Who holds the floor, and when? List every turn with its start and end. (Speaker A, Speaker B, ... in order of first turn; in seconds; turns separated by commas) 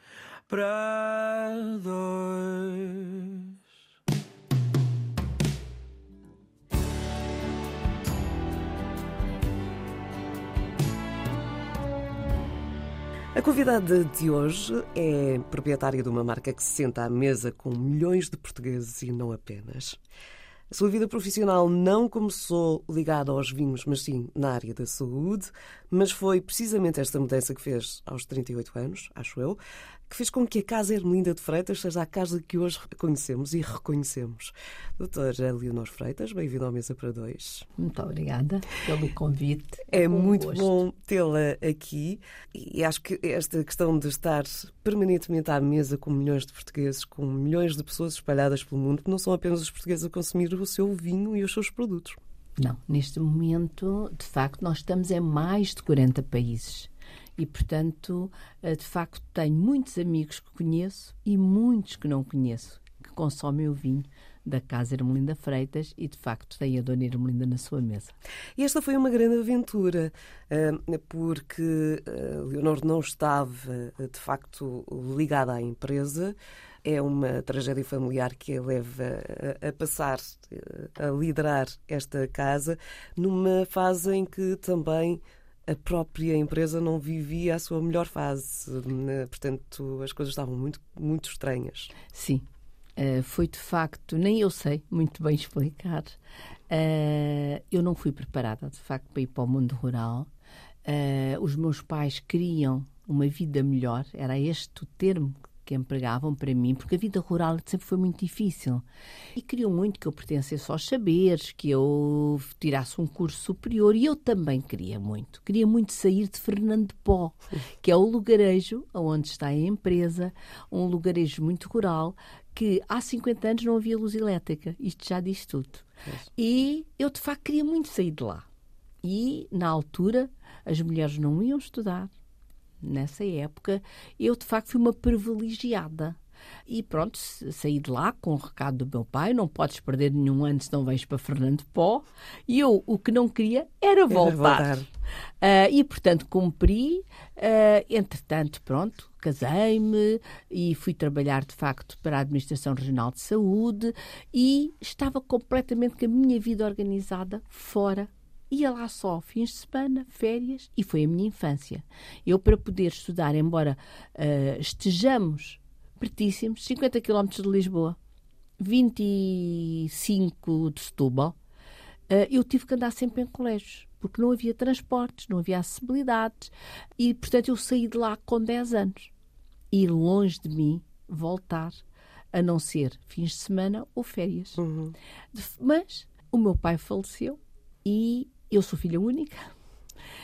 Speaker A: 0.5-3.5, Speaker B: 13.3-20.0, Speaker B: 20.7-29.6, Speaker B: 30.1-37.7, Speaker C: 37.8-40.8, Speaker B: 39.9-52.2, Speaker C: 52.6-68.1, Speaker B: 68.6-91.9, Speaker C: 92.1-92.5, Speaker C: 93.0-96.2, Speaker C: 96.7-100.3, Speaker C: 100.8-108.8, Speaker C: 109.4-128.5, Speaker C: 129.0-132.1, Speaker C: 132.8-144.9, Speaker B: 144.1-144.9, Speaker C: 145.4-168.0, Speaker C: 168.6-171.4, Speaker C: 172.1-179.1, Speaker C: 179.7-181.8, Speaker C: 182.3-184.6, Speaker B: 184.6-184.9, Speaker C: 185.3-189.5